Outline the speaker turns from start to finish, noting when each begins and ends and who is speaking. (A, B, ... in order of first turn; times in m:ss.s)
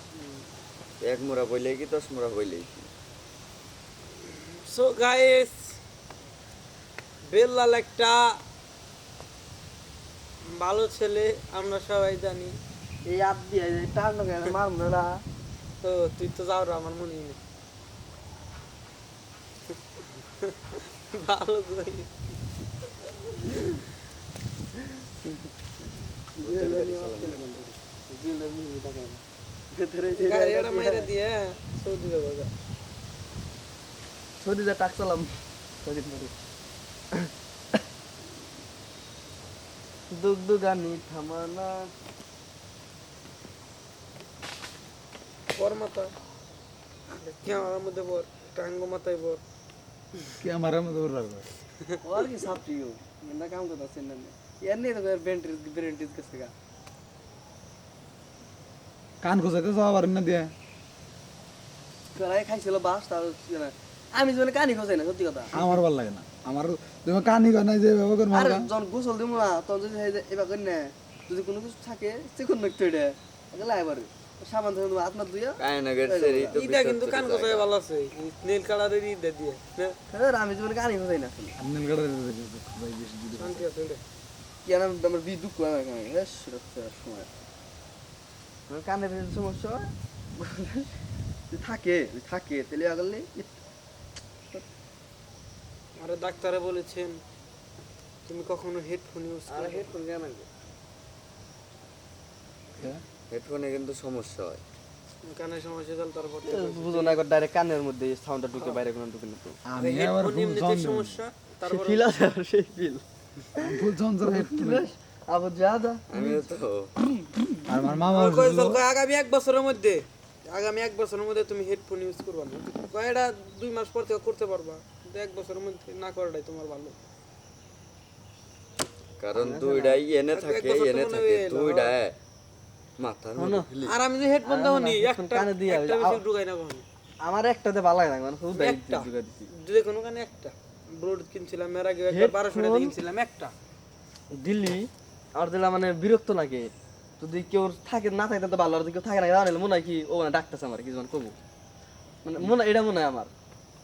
0:01.0-0:02.9 A
0:04.2-0:05.7 B
0:07.3-0:08.4 B
0:10.5-0:12.6 B
0:13.0-0:15.2 C
0:15.8-0:17.4 B
0:20.4-0:22.1 B
0:26.4-0:31.1 C
0:26.4-0:27.7 A
0:30.2-0:32.5 B
0:34.4-0:36.3 C
0:40.1-0:41.9 C
0:45.6-0:46.1 B
0:47.2-0:49.4 B
0:50.4-0:51.4 D
0:52.0-0:56.5 C
0:59.2-1:00.5 D
1:02.1-1:05.5 C
1:05.5-1:08.7 D
1:08.3-1:16.5 C
1:15.6-1:17.7 A
1:16.5-1:20.0 B
1:20.1-1:21.6 C
1:21.6-1:23.6 D
1:23.3-1:24.0 B
1:24.6-1:27.3 C
1:28.7-1:30.9 C
1:31.5-1:33.6 C
1:36.0-1:37.2 B
1:38.3-1:39.9 B
1:39.5-1:40.5 C
1:43.3-1:44.6 A
1:45.2-1:47.2 B
1:46.4-1:49.6 C
1:49.6-1:51.2 D
1:49.8-1:52.1 B
1:51.6-1:53.0 C
1:53.5-1:56.5 C
1:53.6-1:54.8 D
1:56.1-1:56.9 A
1:57.0-1:57.5 C
1:57.7-1:58.8 D
1:58.1-2:07.0 B
2:09.2-2:12.2 A
2:09.3-2:10.0 C
2:10.3-2:11.9 B
2:13.0-2:14.0 A
2:13.4-2:13.7 C
2:13.8-2:16.8 B
2:14.4-2:16.2 C
2:17.2-2:19.5 C
2:18.5-2:23.5 B
2:22.1-2:22.9 C
2:24.3-2:31.4 C
2:32.2-2:33.3 C